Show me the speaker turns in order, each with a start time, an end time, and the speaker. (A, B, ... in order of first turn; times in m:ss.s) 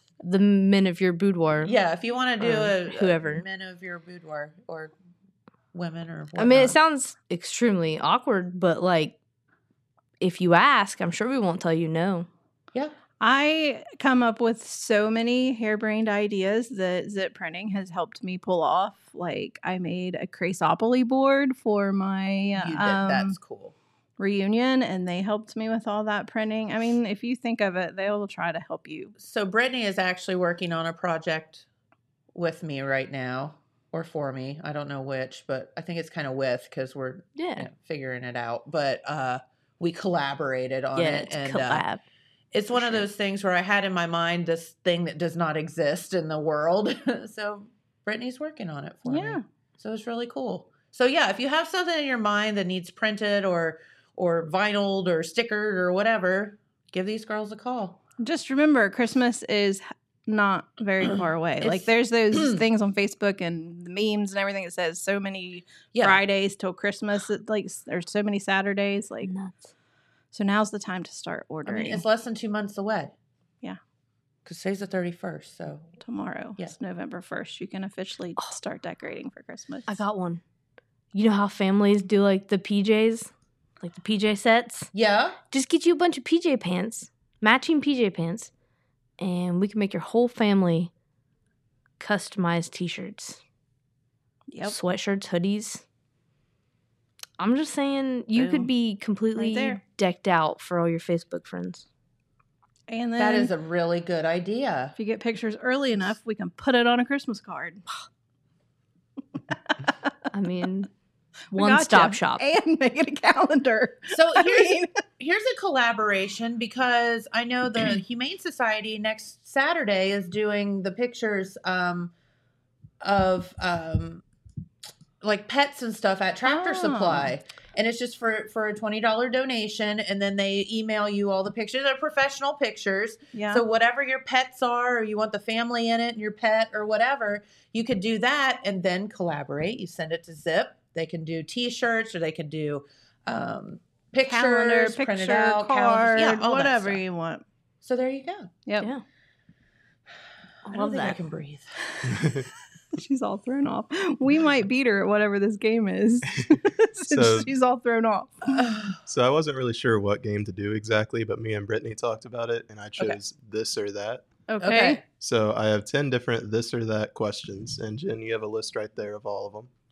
0:00.2-0:01.7 A
0:01.6-0:04.9 B
0:02.4-0:03.4 A
0:05.7-0:06.8 B
0:06.4-0:09.2 A
0:10.2-0:12.3 A
0:13.2-0:23.4 C
0:22.6-0:23.7 B
0:24.2-0:29.1 C
0:29.2-0:31.6 B
0:32.3-0:41.8 B
0:37.4-0:37.7 A
0:40.9-0:42.0 A
0:42.5-0:58.0 B
0:49.0-0:49.4 C
0:58.2-1:09.3 C
1:01.6-1:02.6 B
1:05.9-1:06.2 B
1:09.2-1:09.6 A
1:10.3-1:12.0 C
1:11.6-1:13.1 B
1:14.4-1:15.9 B
1:16.0-1:19.9 C
1:19.9-1:20.4 A
1:21.1-1:24.9 A
1:24.9-1:25.4 B
1:25.5-1:28.5 A
1:29.2-1:30.9 A
1:32.0-1:33.4 A
1:34.5-1:34.8 C
1:34.6-1:35.8 A
1:37.4-1:41.8 A
1:38.4-1:38.7 C
1:39.4-1:39.8 C
1:42.9-1:43.5 C
1:43.2-1:44.9 B
1:45.0-1:47.8 C
1:50.3-1:50.9 A
1:51.5-1:52.4 A
1:51.5-1:54.9 C
1:54.1-2:02.1 B
2:03.0-2:04.2 B
2:05.2-2:27.0 B
2:06.4-2:07.3 C
2:13.3-2:13.6 C
2:24.2-2:27.4 C
2:27.8-2:28.5 B
2:28.8-2:29.0 A
2:30.6-2:31.2 A
2:30.7-2:31.7 B
2:32.1-2:32.4 D
2:32.9-2:38.6 C
2:37.1-2:37.5 D
2:38.5-2:39.0 B
2:39.0-2:44.3 D
2:44.5-2:45.0 C
2:44.6-2:45.0 B
2:45.1-2:49.7 D